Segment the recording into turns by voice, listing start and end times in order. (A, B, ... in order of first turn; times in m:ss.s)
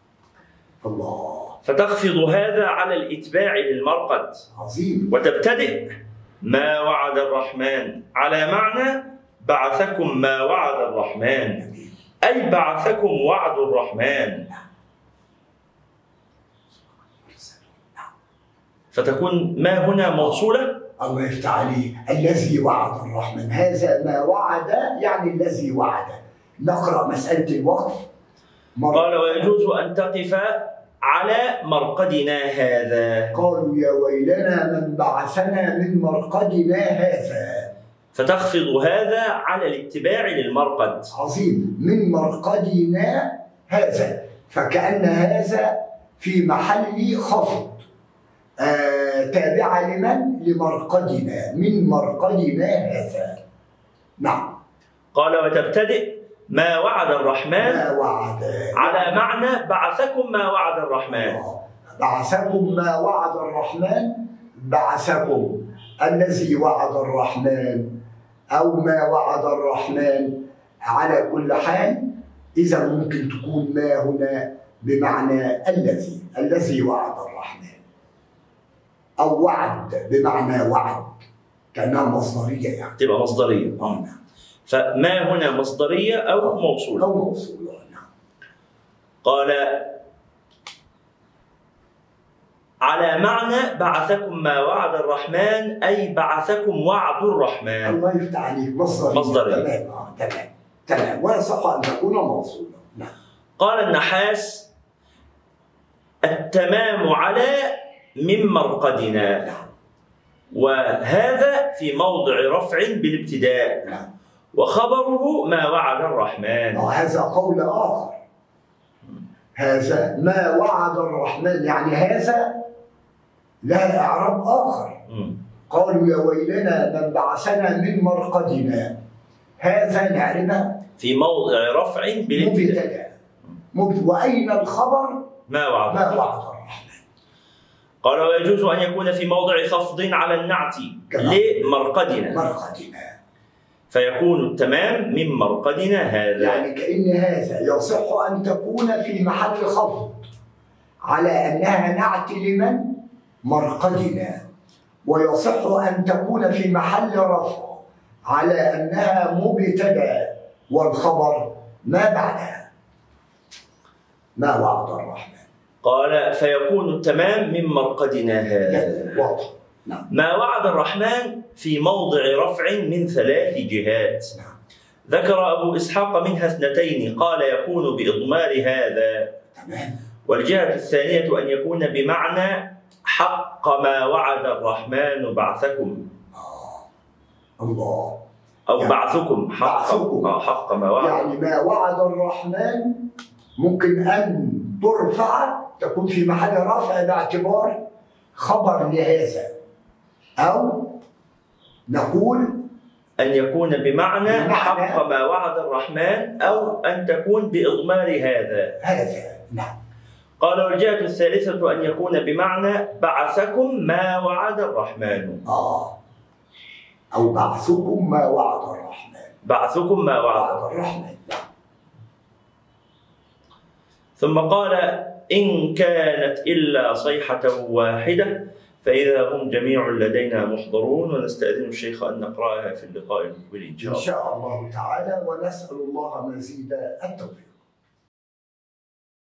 0:00.8-0:01.6 A
0:01.6-0:04.4 B
0:04.6-0:05.1 A
0:05.1-0:11.6 B
0:11.6-0:11.9 A
0:12.2-0:14.5 B
0:17.2-0:18.0 A
0:18.9-0:20.8 B
0:21.0-0:28.1 A
0:28.8-0:29.5 A
0:28.9-0:33.4 B
0:33.3-0:37.7 A
0:38.1-0:41.1 B
0:41.1-0:47.8 A
0:48.6-0:53.4 A
0:54.2-0:54.6 A
0:55.1-0:57.8 B
0:57.6-0:59.2 A
0:58.8-1:01.4 B
1:01.1-1:07.9 A
1:08.5-1:10.4 A
1:10.9-1:17.8 A
1:19.2-1:23.0 A
1:23.0-1:24.0 B
1:23.8-1:24.2 A
1:24.6-1:27.1 B
1:26.4-1:28.0 A
1:29.2-1:30.0 B
1:32.9-1:38.0 B
1:37.8-1:43.1 A
1:39.1-1:39.6 B
1:43.6-1:44.7 B
1:46.2-1:49.5 B
1:50.5-1:54.0 B
1:54.5-1:56.9 B
1:56.7-1:58.2 A
1:59.6-2:02.6 A
2:03.6-2:05.0 A
2:05.1-2:05.4 B
2:05.7-2:09.0 A
2:09.6-2:10.8 A
2:11.0-2:12.8 B
2:12.3-2:13.1 A
2:13.7-2:15.2 A
2:15.5-2:16.2 B
2:15.9-2:17.0 A
2:18.0-2:22.4 B
2:21.1-2:21.7 A
2:22.3-2:23.1 A
2:23.9-2:26.6 B
2:26.4-2:30.3 A
2:31.1-2:34.4 A
2:35.1-2:42.7 A
2:44.4-2:45.4 A
2:45.8-2:49.2 B
2:48.6-2:50.1 A
2:50.1-2:54.3 B
2:55.1-2:59.3 B
2:59.5-3:00.0 A
3:00.3-3:06.0 B
3:06.3-3:06.8 A
3:07.6-3:08.2 A
3:08.7-3:11.3 B
3:08.8-3:09.1 A
3:09.6-3:13.0 A
3:13.6-3:17.8 A
3:18.4-3:19.5 A
3:20.4-3:21.0 A
3:21.9-3:22.6 A
3:23.2-3:28.8 B
3:24.2-3:25.0 A
3:26.4-3:26.7 A
3:28.8-3:29.8 A
3:30.4-3:35.4 B
3:35.5-3:35.9 A
3:37.1-3:39.3 A
3:39.4-3:40.6 B
3:40.3-3:41.4 A
3:44.2-3:54.1 B
3:53.8-3:57.6 A